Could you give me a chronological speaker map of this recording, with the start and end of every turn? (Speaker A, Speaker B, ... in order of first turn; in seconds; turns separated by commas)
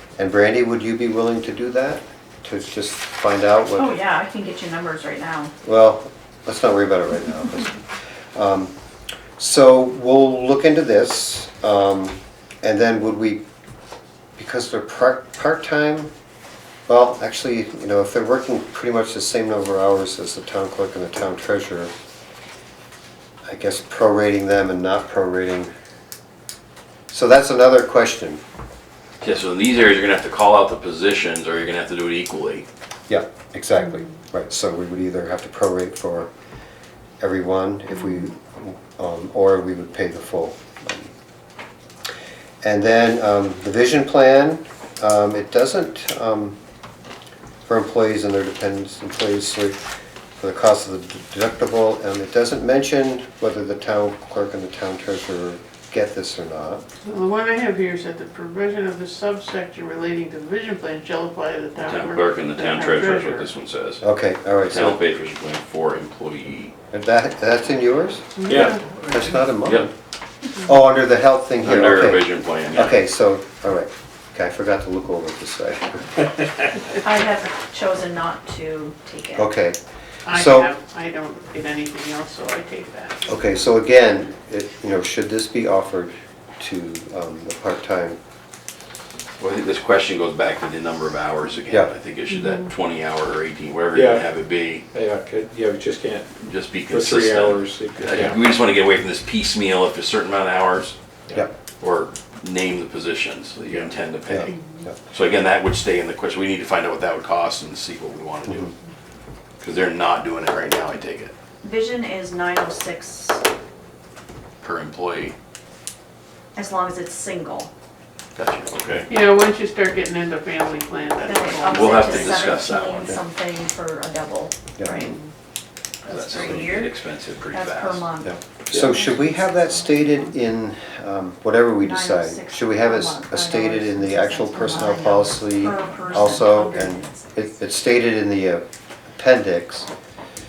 Speaker A: 0.2-4.0, Speaker B: 3.7-5.5, Speaker A: 5.6-7.8, Speaker A: 8.3-8.7, Speaker A: 9.4-13.4, Speaker A: 14.4-16.1, Speaker A: 16.9-21.9, Speaker A: 23.5-25.7, Speaker A: 27.1-28.4, Speaker C: 29.2-32.6, Speaker A: 33.1-36.3, Speaker A: 37.2-41.1, Speaker A: 42.6-46.6, Speaker A: 47.7-49.8, Speaker A: 50.4-56.8, Speaker D: 57.0-63.5, Speaker C: 61.8-64.0, Speaker A: 64.0-65.0, Speaker C: 64.6-66.7, Speaker A: 66.9-69.9, Speaker D: 68.4-68.8, Speaker E: 68.5-69.2, Speaker A: 70.6-76.2, Speaker C: 71.6-73.0, Speaker B: 77.0-79.5, Speaker A: 79.3-79.8, Speaker D: 80.2-83.4, Speaker A: 80.3-80.7, Speaker A: 83.3-88.2, Speaker C: 89.4-94.8, Speaker D: 92.3-92.7, Speaker E: 93.9-94.3, Speaker E: 94.9-98.4, Speaker C: 96.4-101.0, Speaker C: 101.8-104.5, Speaker A: 104.2-105.0, Speaker C: 105.1-108.7, Speaker C: 109.6-111.3, Speaker B: 111.6-113.4, Speaker C: 114.6-115.3, Speaker B: 116.5-117.7, Speaker C: 118.3-119.1, Speaker D: 119.1-122.6, Speaker B: 121.2-125.1, Speaker C: 121.7-123.1, Speaker A: 124.8-125.2, Speaker B: 126.0-126.9, Speaker C: 126.0-128.1, Speaker B: 127.5-130.3, Speaker A: 128.2-138.6, Speaker B: 131.8-137.3, Speaker A: 139.2-139.9